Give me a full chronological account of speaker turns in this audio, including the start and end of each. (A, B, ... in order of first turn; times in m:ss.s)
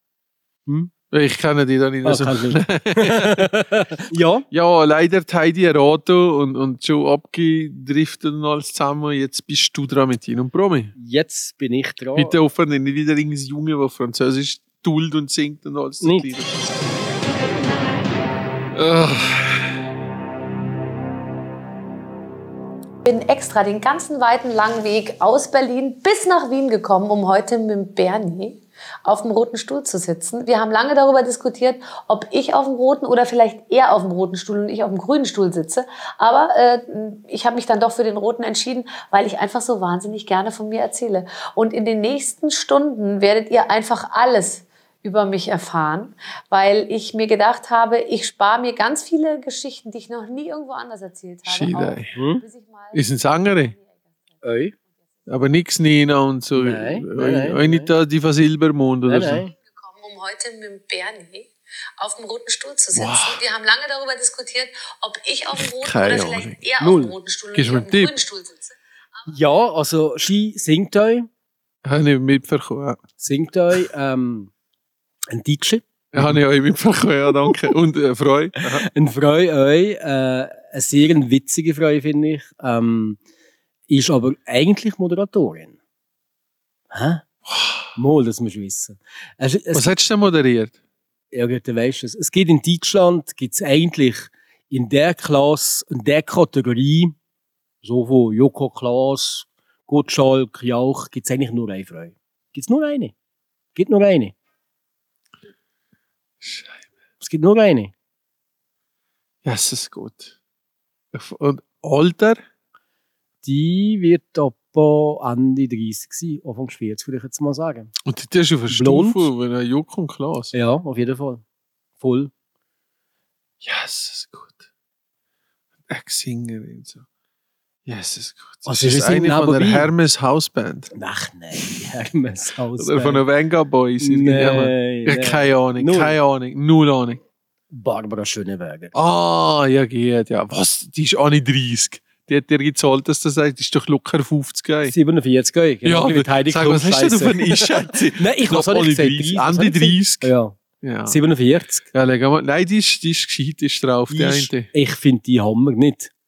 0:00.7-0:00.9 A
0:01.1-0:03.6 B
0:02.0-0:04.5 A
0:04.5-0:10.9 B
0:11.0-0:12.4 A
0:12.2-0:16.5 B
0:16.0-0:16.3 A
0:18.7-0:19.7 B
0:23.0-0:54.4 C
0:51.5-0:52.2 B
0:52.2-0:52.4 A
0:52.9-0:53.7 B
0:54.4-0:54.7 A
0:55.3-0:59.4 B
0:56.6-0:57.9 A
0:59.1-0:59.5 A
0:59.5-1:08.7 C
1:02.9-1:03.4 B
1:05.6-1:06.7 B
1:06.8-1:07.2 A
1:07.5-1:08.2 B
1:09.3-1:11.3 A
1:11.8-1:13.0 B
1:13.2-1:14.5 A
1:15.3-1:16.4 A
1:16.1-1:18.9 B
1:18.7-1:23.2 A
1:23.9-1:25.8 A
1:26.9-1:27.2 A
1:27.5-1:27.8 B
1:28.0-1:29.9 A
1:29.7-1:30.8 B
1:31.3-1:37.1 A
1:37.8-1:43.1 A
1:43.8-1:44.4 A
1:46.4-1:46.8 B
1:47.2-1:47.9 A
1:49.4-1:50.4 B
1:51.1-1:52.4 B
1:53.4-1:57.9 A
1:58.1-2:00.5 B
1:58.7-1:59.3 A
2:00.5-2:01.4 A
2:02.0-2:02.3 A
2:03.6-2:04.6 B
2:05.9-2:07.0 B
2:07.9-2:10.9 B
2:08.7-2:09.9 A
2:10.9-2:13.2 A
2:12.8-2:17.2 B
2:14.0-2:16.2 A
2:17.7-2:18.9 A
2:18.9-2:25.0 B
2:24.9-2:31.8 A
2:25.8-2:31.2 B
2:31.9-2:34.7 B
2:34.1-2:36.1 A